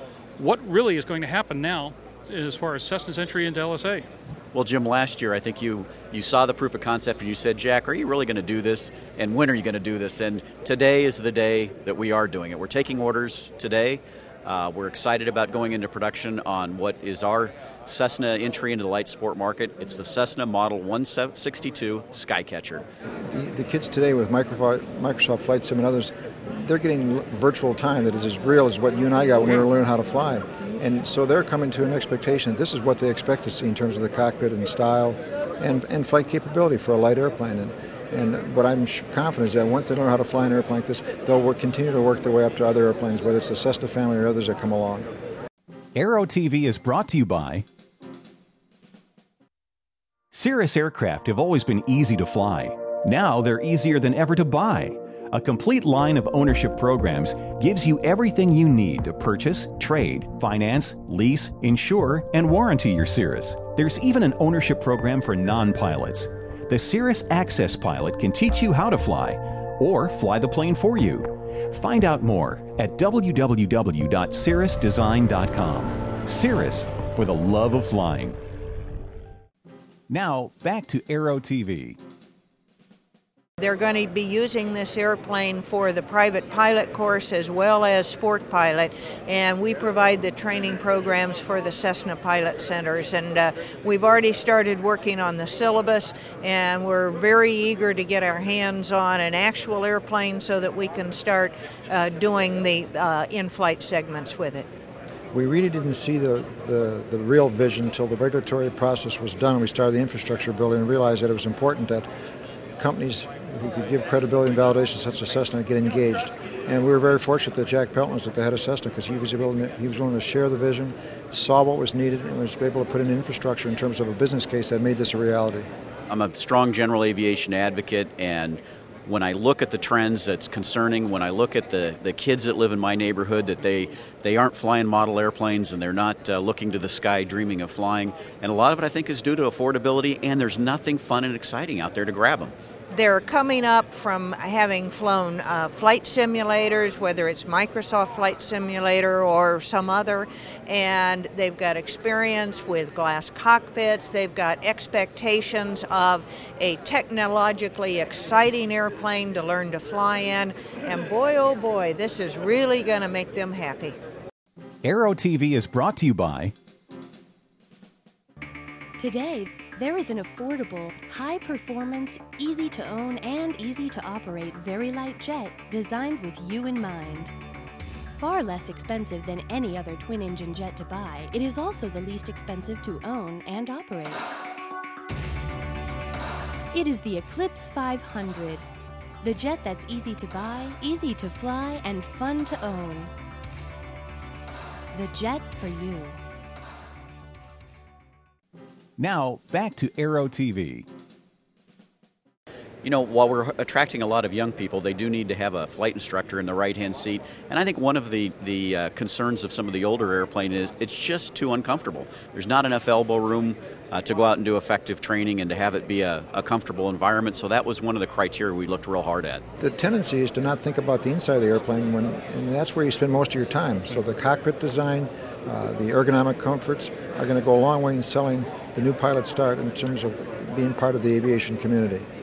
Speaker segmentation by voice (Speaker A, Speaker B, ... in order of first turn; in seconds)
Speaker A: 0.4-4.1
Speaker B: 4.5-22.9, 126.1-142.5, 202.8-219.4
Speaker C: 23.1-45.1, 105.3-112.1, 112.8-125.7, 219.6-232.1
Speaker D: 45.9-47.6, 50.3-78.3, 80.1-82.0, 164.8-166.5, 199.0-200.9
Speaker E: 83.6-104.7, 142.9-163.9
Speaker F: 169.0-177.3, 178.1-184.3, 186.7-188.7, 189.2-193.1, 194.9-196.2